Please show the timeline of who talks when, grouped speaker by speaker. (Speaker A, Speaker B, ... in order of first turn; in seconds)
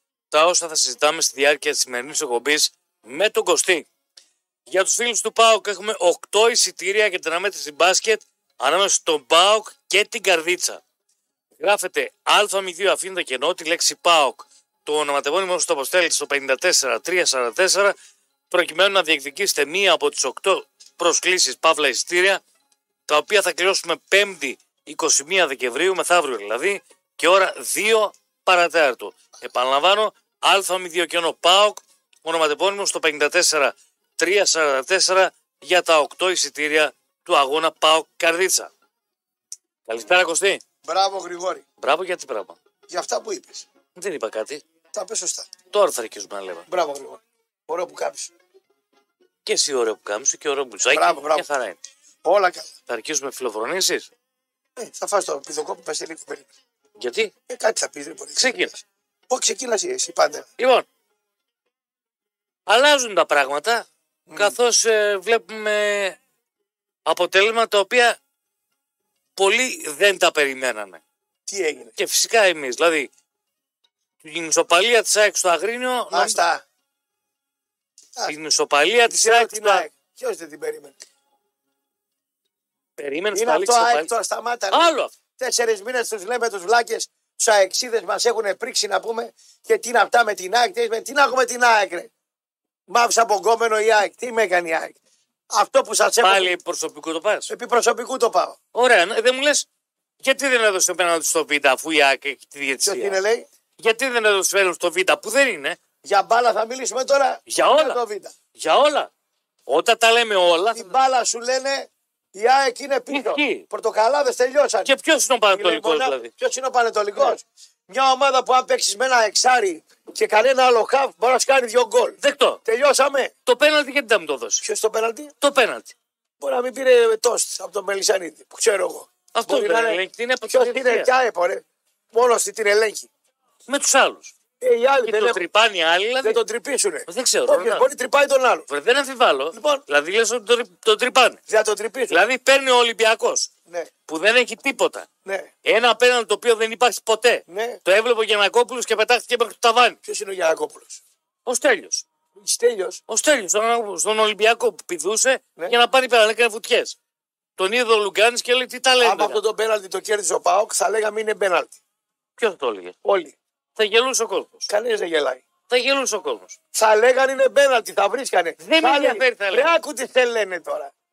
Speaker A: 0.3-3.9, 4.7-10.8, 11.6-17.9, 18.5-22.4, 23.1-38.7, 39.9-40.6, 41.8-42.6, 44.0-44.6, 45.7-46.7, 49.5-51.8, 52.9-54.1, 57.0-57.3, 58.4-58.7, 60.6-60.9, 62.7-66.2, 67.1-68.2, 69.4-71.0, 72.0-73.1, 74.2-76.4, 78.2-79.9, 83.0-84.1, 84.7-85.1, 96.2-97.5, 98.7-99.7, 100.2-103.2, 103.8-105.8, 107.5-108.0, 108.6-109.1, 109.7-110.9, 113.1-113.7, 114.8-116.3, 122.2-122.6, 123.5-124.6, 125.4-125.9, 129.3-131.1, 133.7-134.3, 135.0-136.4, 137.1-137.9, 138.7-141.4, 142.1-143.5, 144.1-145.1, 145.7-150.0, 151.5-152.1, 153.1-157.0, 157.6-159.4, 162.4-162.9, 163.8-164.7, 165.7-166.6, 168.6-169.7
Speaker B: 40.8-41.6, 42.9-43.7, 44.9-45.5, 46.7-48.3, 50.9-51.5, 52.2-52.7, 54.8-56.5, 57.5-60.5, 64.3-64.5, 71.5-72.0, 76.1-76.6, 79.1-80.9, 83.3-92.1, 92.9-95.0, 95.5-96.5, 97.5-98.6, 102.8-103.5, 106.0-108.3, 110.7-114.9, 115.5-123.3, 124.6-125.3, 126.4-130.0, 130.5-133.1, 134.6-135.4, 136.2-138.7, 139.5-139.8, 141.5-142.2, 145.2-145.5, 147.5-147.8, 150.0-151.0, 152.4-153.0, 159.0-161.8, 163.0-163.3, 164.7-165.4, 166.7-170.9